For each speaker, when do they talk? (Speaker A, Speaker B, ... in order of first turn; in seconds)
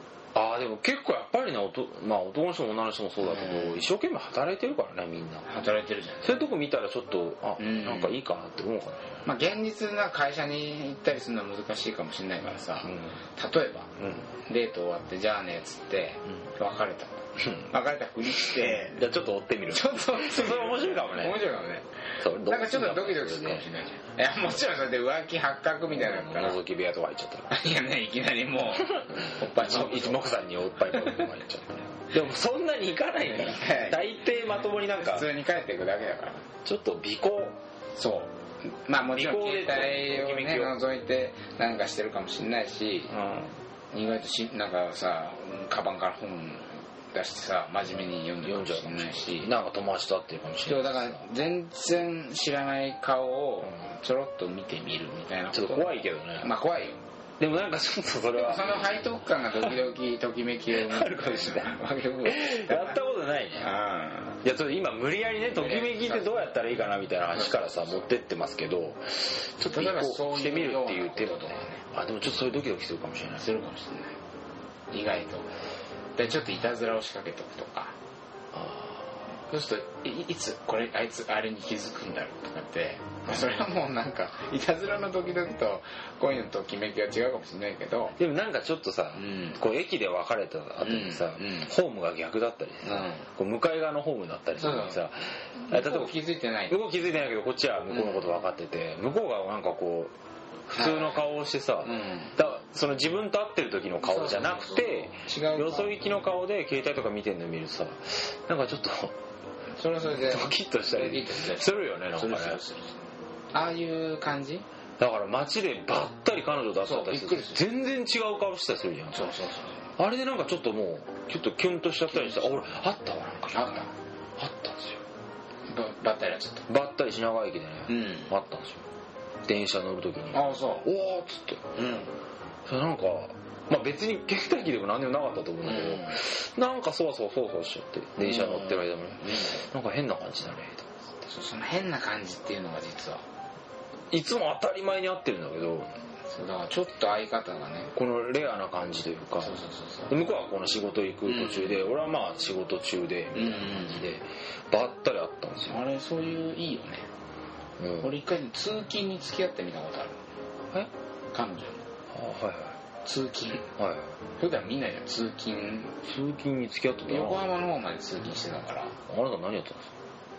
Speaker A: 0.3-5.5, 6.2-9.2, 12.8-13.2, 14.0-14.3, 17.4-17.7, 18.4-21.4, 22.2-23.7, 25.9-27.5, 28.8-35.3, 36.6-37.6, 39.1-40.7, 43.1-43.5, 48.4-51.2, 55.5-56.5, 57.4-58.9, 60.7-63.7, 64.4-73.5, 78.5-79.2, 83.3-83.6, 88.2-96.2, 96.7-100.1, 100.7-109.2, 110.0-112.6, 115.0-119.4, 120.0-125.0, 126.7-128.8, 129.4-132.0, 132.7-140.9, 144.1-145.9, 147.9-149.6, 150.1-155.8, 157.8-158.1, 162.1-162.8, 163.8-164.2, 166.0-167.5, 169.1-169.9
Speaker B: 3.2-3.9, 5.5-6.4, 7.6-8.2, 9.2-19.0, 19.7-26.6, 27.5-30.2, 30.9-31.2, 33.3-34.1, 34.9-36.5, 38.0-43.2, 43.9-49.5, 50.6-57.0, 58.3-63.0, 63.5-64.4, 65.5-66.5, 67.5-67.8, 69.6-71.8, 73.4-74.2, 74.9-75.5, 76.2-77.9, 79.5-88.1, 89.2-89.6, 90.8-91.7, 92.8-93.2, 94.6-95.0, 95.5-96.7, 100.7-101.2, 101.8-102.3, 104.0-106.0, 109.7-113.0, 113.5-114.6, 116.8-117.6, 119.1-119.8, 122.1-122.5, 123.5-123.9, 125.7-126.7, 127.9-128.3, 130.3-130.9, 131.8-132.1, 135.6-136.1, 138.2-139.6, 141.2-143.2, 146.3-147.9, 149.4-150.1, 151.3-151.8, 153.3-154.1, 155.7-157.1, 158.0-160.2, 161.3-161.8, 163.0-163.7, 164.4-166.0, 167.0-168.9